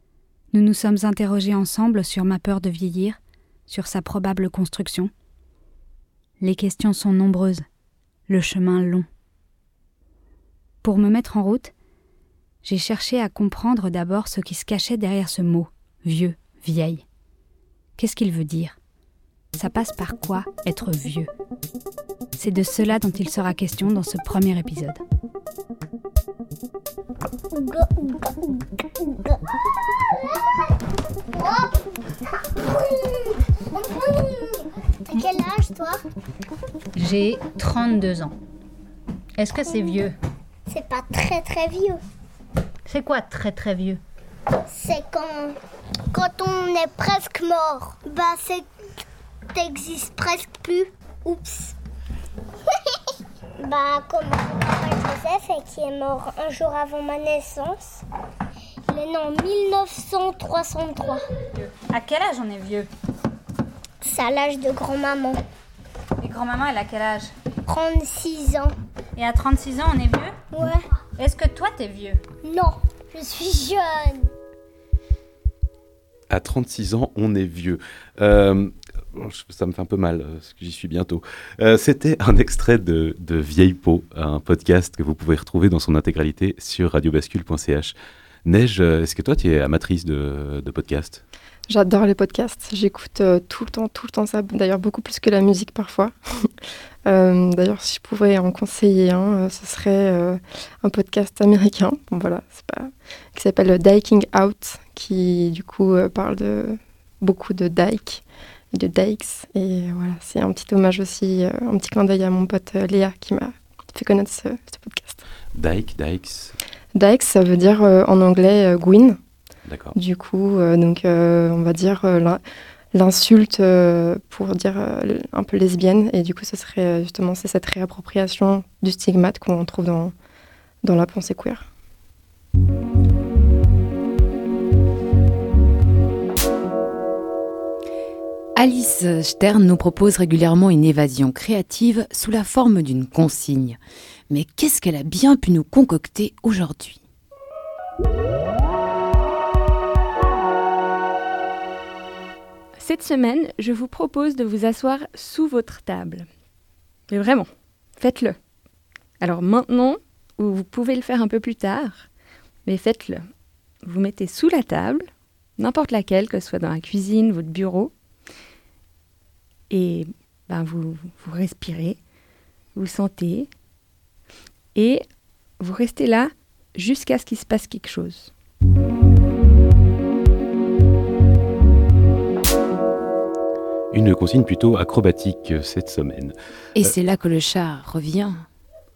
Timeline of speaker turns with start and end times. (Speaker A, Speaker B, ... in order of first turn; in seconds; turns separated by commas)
Speaker A: 0.5-5.1, Speaker A: 6.4-7.7, Speaker A: 8.3-9.1, Speaker A: 10.8-11.7, Speaker A: 12.6-17.0, Speaker A: 18.0-18.8, Speaker A: 19.6-21.3, Speaker A: 22.4-25.0, Speaker B: 27.6-28.4, Speaker B: 31.3-31.8, Speaker B: 32.6-36.0, Speaker A: 37.0-38.3, Speaker A: 39.4-40.1, Speaker B: 39.6-40.0, Speaker B: 40.7-42.0, Speaker A: 42.9-44.0, Speaker B: 44.7-45.5, Speaker B: 46.1-48.6, Speaker B: 49.5-51.8, Speaker B: 53.6-58.0, Speaker B: 58.9-61.2, Speaker A: 61.8-62.9, Speaker B: 64.0-65.4, Speaker A: 66.2-67.3, Speaker B: 67.7-68.7, Speaker A: 69.2-70.4, Speaker B: 70.5-70.8, Speaker A: 71.2-72.2, Speaker B: 72.4-74.3, Speaker C: 76.3-87.9, Speaker C: 88.5-91.2, Speaker D: 91.7-96.5, Speaker D: 97.0-115.2, Speaker C: 115.5-116.5, Speaker D: 117.0-119.2, Speaker C: 119.7-119.9, Speaker D: 120.0-122.4, Speaker D: 122.9-130.1, Speaker D: 130.8-131.7, Speaker E: 138.6-143.8, Speaker E: 144.3-147.0, Speaker F: 152.8-156.3, Speaker F: 157.1-158.4, Speaker F: 159.2-162.1, Speaker F: 162.7-163.3, Speaker F: 163.8-167.9, Speaker F: 169.7-172.0, Speaker F: 172.8-173.5, Speaker F: 174.8-175.1, Speaker F: 175.6-178.3, Speaker C: 183.9-186.3, Speaker E: 186.8-188.4